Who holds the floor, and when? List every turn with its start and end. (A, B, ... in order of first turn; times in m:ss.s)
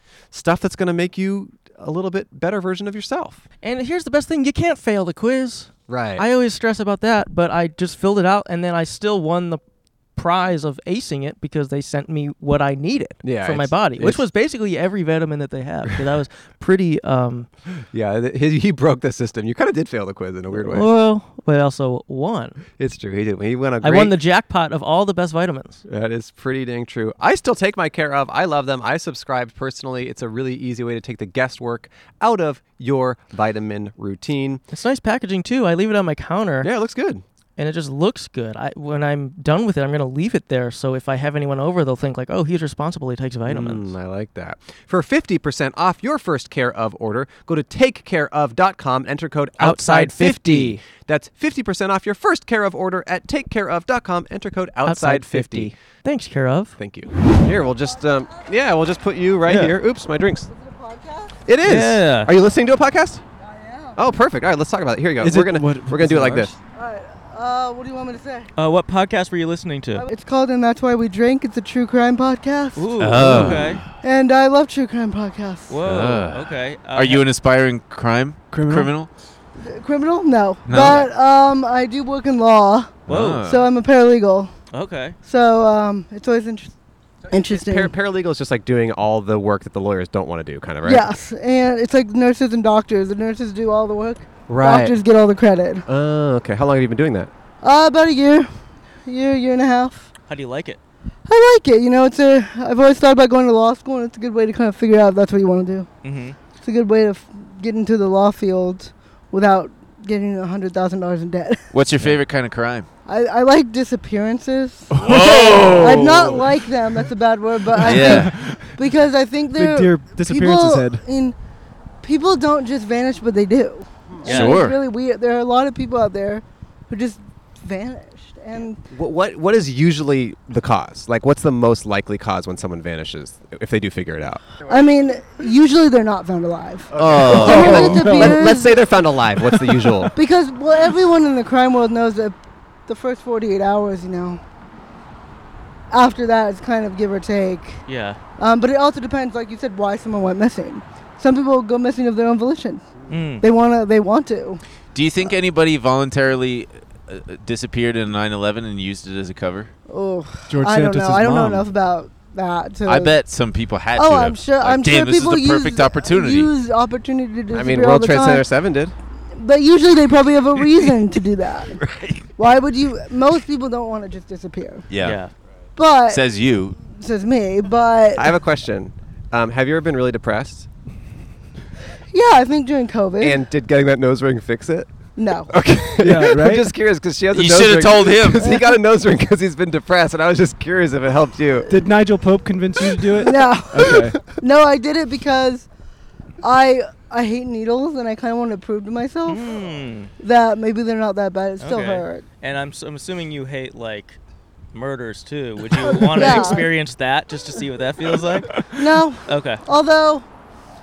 0:00.3-0:03.4 A
0:03.6-0:09.6 B
0:05.9-0:06.2 A
0:10.1-0:17.5 B
0:13.2-0:14.2 A
0:17.9-0:20.9 A
0:20.5-0:22.6 B
0:22.8-0:24.2 A
0:23.8-0:25.8 B
0:25.8-0:34.6 A
0:34.7-0:36.7 B
0:36.6-0:37.2 A
0:37.6-0:43.9 B
0:43.5-0:55.7 A
0:49.6-0:50.8 B
0:54.8-0:56.8 B
0:56.8-1:00.5 A
0:59.4-0:59.8 B
1:00.5-1:01.4 C
1:01.4-1:03.2 A
1:01.6-1:02.3 B
1:03.4-1:04.0 C
1:04.0-1:06.5 A
1:05.2-1:06.6 D
1:06.7-1:08.5 C
1:08.6-1:10.0 B
1:10.0-1:13.4 C
1:12.8-1:13.8 B
1:13.0-1:13.9 E
1:13.2-1:13.6 A
1:14.0-1:15.8 C
1:15.7-1:17.2 B
1:15.8-1:19.1 E
1:18.5-1:18.9 D
1:19.6-1:24.5 C
1:20.6-1:21.1 E
1:23.1-1:23.6 E
1:23.1-1:23.5 B
1:24.7-1:25.2 B
1:25.2-1:26.7 C
1:27.3-1:27.9 C
1:27.3-1:31.1 A
1:30.8-1:35.9 C
1:34.5-1:35.0 A
1:35.9-1:37.3 A
1:37.6-1:38.5 C
1:39.0-1:40.1 C
1:40.3-1:40.8 B
1:41.3-1:45.9 C
1:46.0-1:46.4 B
1:46.6-1:51.7 C
1:51.7-1:52.9 E
1:53.1-2:01.4 C
1:54.9-1:56.4 D
1:55.0-1:56.4 E
1:57.8-1:58.7 D
1:57.8-1:58.7 E
1:59.5-2:01.0 D
2:02.0-2:08.8 C
2:04.2-2:04.8 E
2:04.2-2:04.6 B
2:08.9-2:14.5 A
2:14.7-2:18.8 C
2:16.9-2:20.1 A
2:17.0-2:18.1 E
2:17.3-2:18.4 D
2:20.1-2:22.4 C
2:22.9-2:24.4 C
2:25.9-2:27.8 C
2:27.9-2:28.2 B
2:28.4-2:32.9 C
2:33.1-2:33.4 B
2:33.4-2:34.6 C
2:34.9-2:39.7 E
2:39.9-2:43.1 C
2:40.5-2:41.7 D
2:42.9-2:46.5 E
2:44.0-2:48.4 C
2:47.5-2:48.9 A
2:49.4-2:51.8 C
2:51.8-2:52.2 E
2:52.4-2:54.9 C
2:54.9-2:55.2 E
2:55.0-2:55.3 B
2:55.8-2:56.2 C
2:56.1-2:56.8 E
2:56.9-2:58.3 C
2:58.2-3:00.7 A
3:02.1-3:03.4 C
3:03.2-3:04.9 A
3:05.2-3:05.5 C
3:05.5-3:11.7 A
3:06.0-3:06.7 D
3:07.3-3:08.5 E
3:08.4-3:08.8 C
3:11.7-3:14.2 D
3:13.1-3:15.7 C
3:16.4-3:19.5 C
3:19.3-3:20.1 B
3:20.2-3:22.2 C
3:21.6-3:24.2 B
3:24.7-3:28.6 B
3:25.8-3:26.7 C
3:28.7-3:30.2 C
3:29.2-3:29.6 B